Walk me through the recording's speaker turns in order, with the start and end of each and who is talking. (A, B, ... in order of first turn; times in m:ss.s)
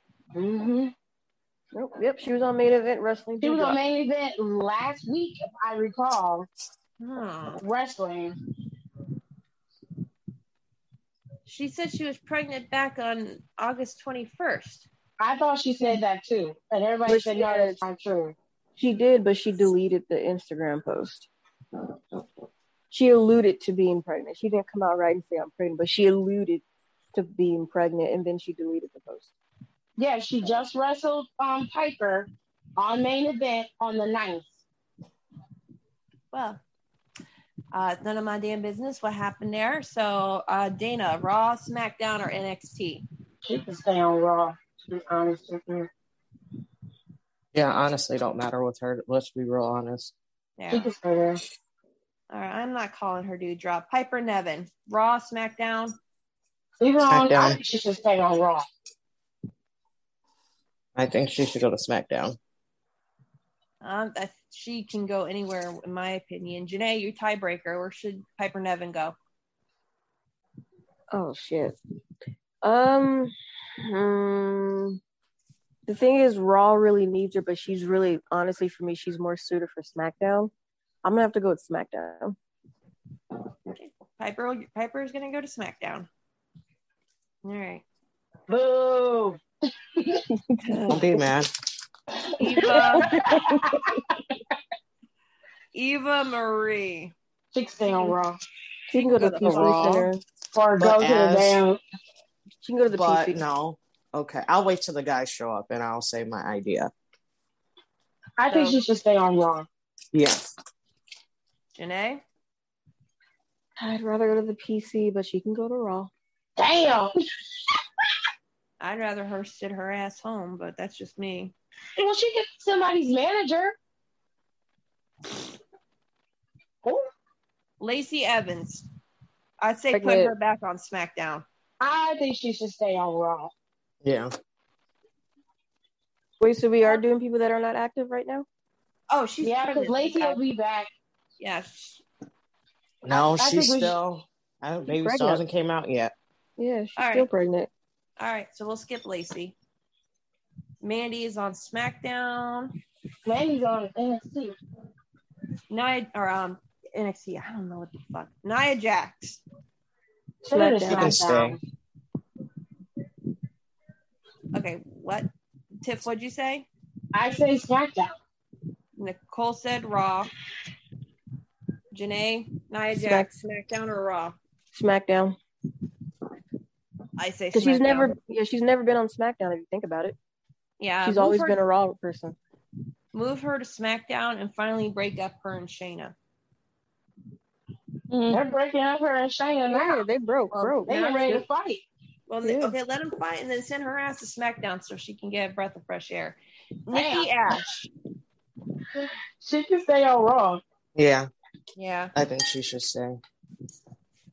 0:00.4-0:00.9 A
0:01.7-0:03.8 B
0:03.4-0:06.5 A
0:07.0-0:07.6 C
0:07.6-0:08.4 A
0:11.5-0:14.9 C
0:15.2-0:18.4 A
0:17.1-0:17.8 B
0:18.8-0:21.3 B
0:22.9-0:29.3 B
0:30.0-0:34.6 A
0:36.3-0:36.6 C
0:37.7-0:43.0 C
0:43.4-0:45.9 A
0:47.5-0:50.1 D
0:50.6-0:50.9 C
0:50.7-0:51.4 A
0:52.3-0:56.0 C
0:56.8-0:58.7 A
0:57.1-0:57.6 D
1:01.0-1:02.4 D
1:03.8-1:09.2 C
1:11.1-1:11.8 B
1:12.6-1:15.0 B
1:15.9-1:20.5 B
1:21.0-1:22.4 B
1:23.7-1:26.1 C
1:27.4-1:27.8 C
1:28.5-1:29.4 A
1:30.0-1:30.2 A
1:30.4-1:31.0 B
1:30.9-1:31.5 D
1:32.2-1:34.0 A
1:32.4-1:33.2 C
1:33.1-1:33.8 B
1:35.7-1:37.1 C
1:37.5-1:38.4 A
1:37.8-1:38.2 C
1:38.9-1:40.2 B
1:38.9-1:40.1 C
1:39.4-1:41.8 A
1:40.8-1:41.6 D
1:42.6-1:43.4 B
1:42.9-1:46.9 D
1:48.4-1:49.7 A
1:48.5-1:48.8 C
1:50.1-1:50.5 D
1:51.8-1:52.2 C
1:53.8-1:56.1 B
1:56.6-1:57.1 A
1:58.8-2:01.5 C
2:02.0-2:03.8 A
2:07.8-2:08.9 C
2:09.6-2:11.4 C
2:09.9-2:10.3 B
2:11.8-2:13.5 A
2:14.0-2:14.3 D
2:16.4-2:18.5 B
2:19.1-2:20.4 C
2:19.4-2:20.9 A
2:21.4-2:22.0 C
2:23.0-2:26.1 D
2:23.1-2:23.9 A
2:24.9-2:25.4 B
2:26.6-2:27.7 B
2:27.0-2:27.3 C
2:28.2-2:29.6 C
2:30.8-2:32.7 C
2:33.2-2:34.6 A
2:35.7-2:39.4 C
2:40.4-2:41.6 A
2:40.5-2:41.2 B
2:40.8-2:41.6 D
2:44.5-2:45.3 C
2:45.8-2:46.7 C
2:47.1-2:48.2 A
2:49.0-2:50.3 C
2:51.9-2:54.4 C
2:52.9-2:53.3 B
2:54.7-2:55.4 B
2:57.2-2:58.1 C
2:57.5-3:00.2 B
3:00.8-3:01.6 C
3:01.0-3:02.4 B
3:03.1-3:06.2 C
3:08.1-3:08.4 B
3:08.3-3:10.0 A
3:09.7-3:11.0 B
3:10.5-3:11.5 C
3:10.9-3:11.8 A
3:12.3-3:17.9 C
3:12.4-3:12.8 B
3:16.9-3:17.3 A
3:19.0-3:20.6 A
3:21.0-3:21.3 D
3:21.8-3:22.1 C
3:22.2-3:23.2 D